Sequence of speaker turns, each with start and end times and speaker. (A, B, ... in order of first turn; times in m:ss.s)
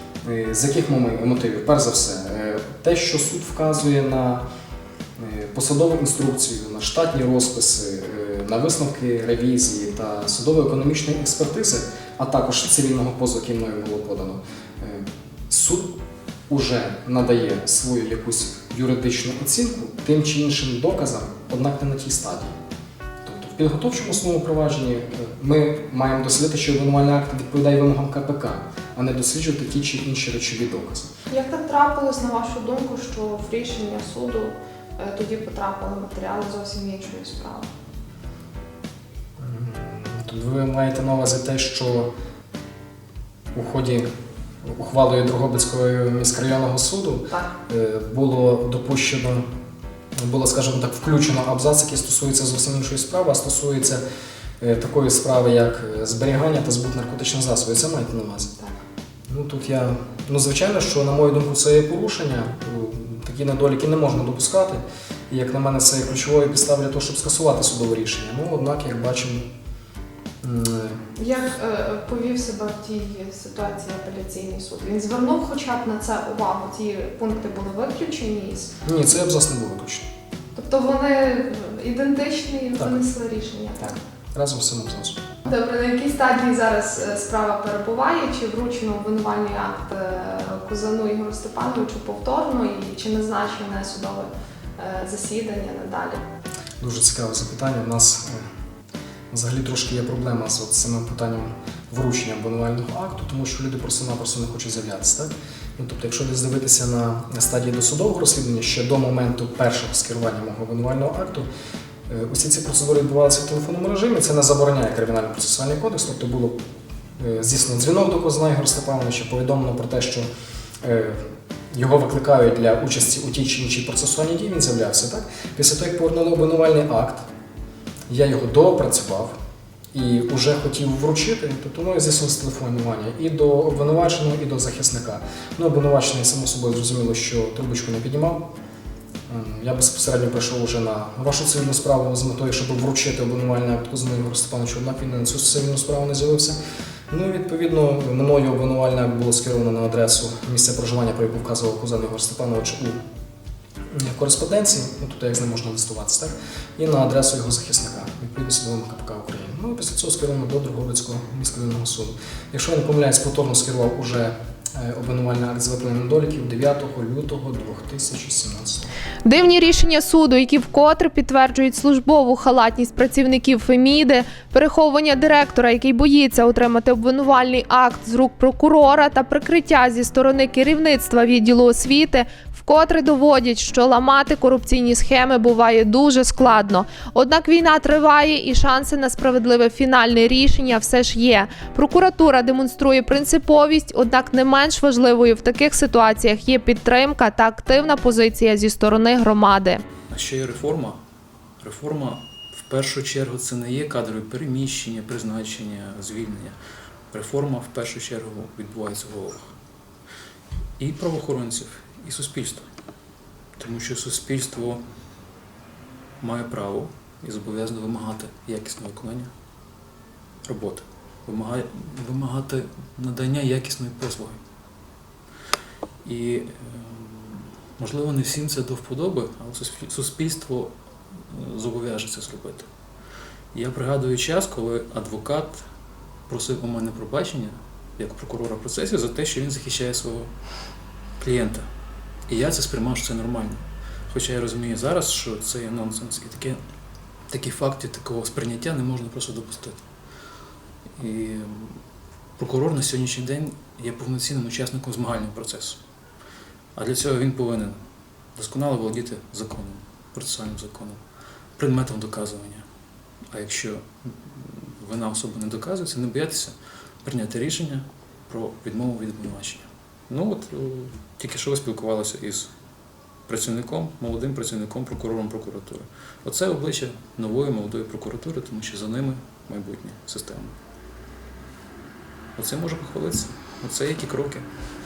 0:00.2-0:04.4 A
0:05.2-0:15.9 A
0:16.5-0:22.5 A
0:23.2-0:31.1 A
0:31.3-0:37.7 B
0:39.4-0:42.1 A
0:43.5-0:44.0 A
0:44.6-0:49.4 A
0:50.2-0:54.0 A
0:54.6-0:58.5 A
0:59.3-1:09.4 A
1:10.4-1:11.0 A
1:11.1-1:18.7 B
1:18.8-1:20.1 A
1:20.5-1:23.9 B
1:22.8-1:23.0 A
1:23.8-1:25.2 A
1:25.4-1:36.2 B
1:36.8-1:38.4 A
1:39.3-1:51.5 A
1:52.1-1:56.6 A
1:57.2-2:00.3 A
2:00.8-2:07.2 A
2:08.1-2:09.3 A
2:09.9-2:18.4 A
2:19.3-2:26.6 A
2:27.1-2:33.0 A
2:33.9-2:48.9 A
2:49.2-3:19.8 B
3:20.1-3:21.0 C
3:21.6-3:26.6 C
3:27.1-3:29.5 C
3:30.8-3:32.7 C
3:33.6-3:34.8 C
3:36.2-3:39.3 C
3:40.4-3:44.4 C
3:46.0-3:52.7 C
3:53.5-3:55.6 C
3:56.3-4:00.3 C
4:01.2-4:01.7 C
4:02.3-4:03.6 C
4:04.1-4:06.6 C
4:07.3-4:09.8 C
4:11.0-4:11.8 C
4:12.4-4:15.8 C
4:16.7-4:17.8 C
4:18.4-4:21.0 C
4:21.6-4:22.6 C
4:23.3-4:32.5 C
4:33.3-4:40.5 C
4:42.4-4:44.4 C